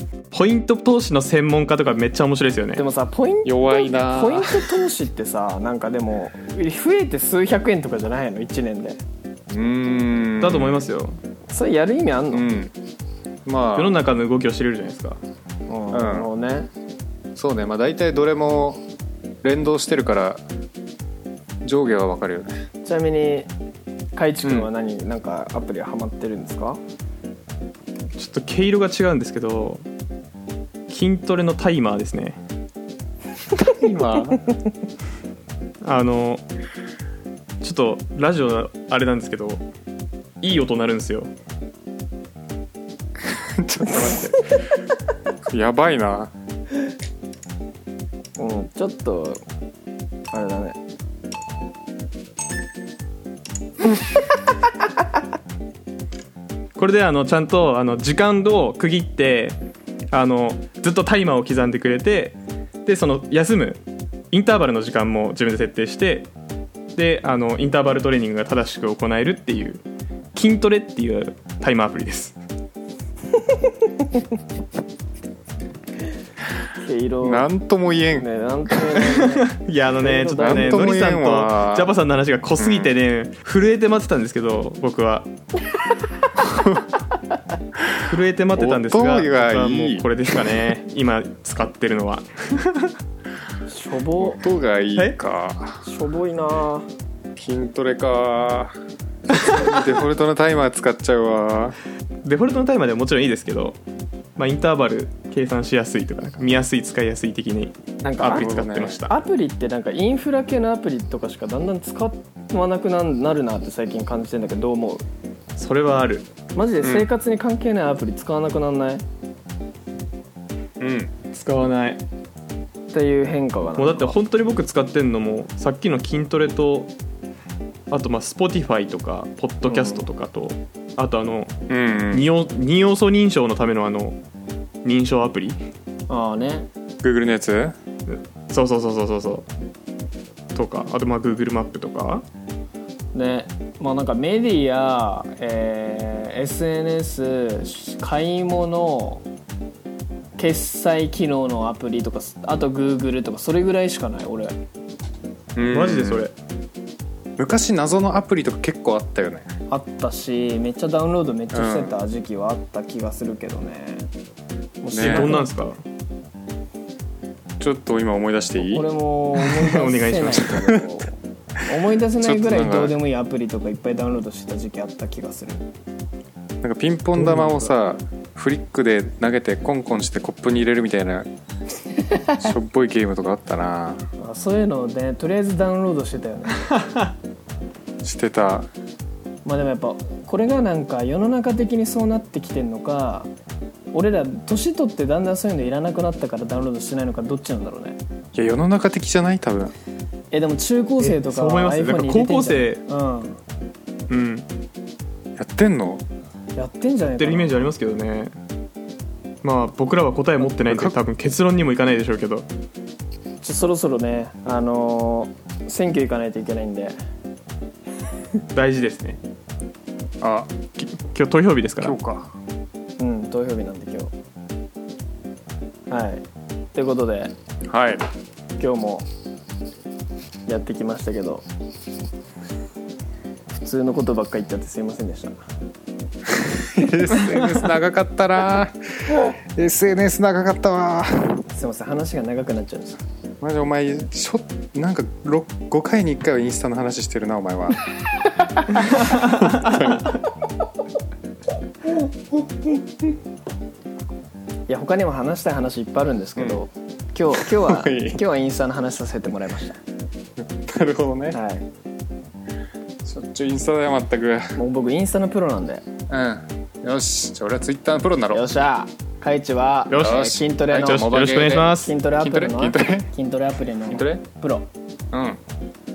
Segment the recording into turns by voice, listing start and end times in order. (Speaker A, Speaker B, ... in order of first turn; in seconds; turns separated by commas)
Speaker A: 0.3-2.8, Speaker B: 2.8-9.0, Speaker C: 3.5-4.8, Speaker C: 9.5-10.8, Speaker A: 10.4-11.2, Speaker B: 11.5-12.5, Speaker C: 12.3-12.7, Speaker C: 13.4-14.0, Speaker A: 13.8-15.2, Speaker B: 15.7-16.7, Speaker C: 15.9-16.3, Speaker C: 17.4-18.8, Speaker C: 19.4-20.4, Speaker C: 21.6-22.5, Speaker B: 22.9-23.5, Speaker B: 24.2-26.8, Speaker A: 28.2-29.9, Speaker A: 30.9-32.4, Speaker C: 33.5-34.4, Speaker A: 35.8-36.4, Speaker A: 37.6-39.6, Speaker A: 40.4-41.3, Speaker C: 43.2-44.5, Speaker B: 43.9-44.3, Speaker C: 45.5-46.3, Speaker B: 48.4-49.4, Speaker B: 50.3-50.8, Speaker A: 56.8-59.6, Speaker A: 60.1-63.8, Speaker A: 64.3-66.3, Speaker A: 67.0-69.8, Speaker A: 70.3-72.4, Speaker B: 76.8-77.5, Speaker C: 77.2-78.3, Speaker B: 78.2-80.9, Speaker A: 79.1-85.3, Speaker C: 80.4-81.9, Speaker C: 82.6-82.9, Speaker C: 86.4-86.8, Speaker A: 88.0-92.9, Speaker C: 88.6-90.5, Speaker B: 93.7-94.5, Speaker C: 94.2-95.8, Speaker B: 95.8-96.9, Speaker C: 97.3-98.8, Speaker C: 99.3-101.8, Speaker A: 102.2-103.8, Speaker A: 104.4-109.1, Speaker B: 108.0-115.0, Speaker C: 108.2-109.0, Speaker A: 115.6-116.3, Speaker B: 116.5-119.0, Speaker C: 116.8-117.1, Speaker C: 120.8-121.1, Speaker A: 121.3-122.0, Speaker B: 122.9-124.2, Speaker A: 123.8-126.9, Speaker A: 127.9-131.5, Speaker B: 129.7-130.1, Speaker C: 131.7-132.3, Speaker A: 132.1-134.2, Speaker A: 134.8-135.6, Speaker B: 136.1-136.7, Speaker C: 137.0-137.8, Speaker A: 138.1-139.5, Speaker A: 140.6-142.2, Speaker B: 143.1-149.2, Speaker B: 150.4-154.5, Speaker C: 155.6-156.3, Speaker A: 155.6-156.3, Speaker C: 157.4-159.5, Speaker B: 159.7-164.1, Speaker C: 161.5-162.0, Speaker B: 164.8-165.6, Speaker C: 164.9-165.3, Speaker A: 165.0-165.8, Speaker C: 167.6-168.9, Speaker B: 168.6-175.7, Speaker A: 169.4-170.6, Speaker C: 172.2-172.9, Speaker C: 176.6-181.3, Speaker A: 177.2-177.7, Speaker C: 182.3-184.1, Speaker B: 184.2-186.8, Speaker C: 188.0-188.7, Speaker B: 189.4-193.3, Speaker B: 193.9-198.0, Speaker C: 198.3-199.7, Speaker B: 200.3-203.4, Speaker A: 201.0-202.8, Speaker A: 204.1-204.5, Speaker C: 205.4-206.0, Speaker B: 206.6-207.7, Speaker A: 207.1-208.3, Speaker A: 209.4-212.5, Speaker C: 210.6-211.0, Speaker B: 213.4-216.9, Speaker A: 218.5-219.2, Speaker C: 220.2-220.9, Speaker A: 221.0-222.0, Speaker C: 221.8-222.3, Speaker B: 223.0-224.1, Speaker B: 225.9-227.3, Speaker C: 227.7-228.1, Speaker B: 228.6-229.1, Speaker B: 230.5-231.5, Speaker B: 233.5-235.4, Speaker C: 236.3-241.5, Speaker B: 241.5-243.0, Speaker C: 243.4-247.8, Speaker C: 249.0-250.1, Speaker B: 254.7-259.8, Speaker C: 256.4-256.6, Speaker C: 257.3-258.2, Speaker C: 260.4-261.4, Speaker B: 261.3-261.7, Speaker C: 263.0-264.6, Speaker B: 264.6-265.9, Speaker C: 266.1-268.4, Speaker B: 268.3-271.1, Speaker A: 269.9-271.9, Speaker C: 269.9-273.1, Speaker B: 271.7-274.7, Speaker C: 273.9-274.2, Speaker C: 275.1-275.4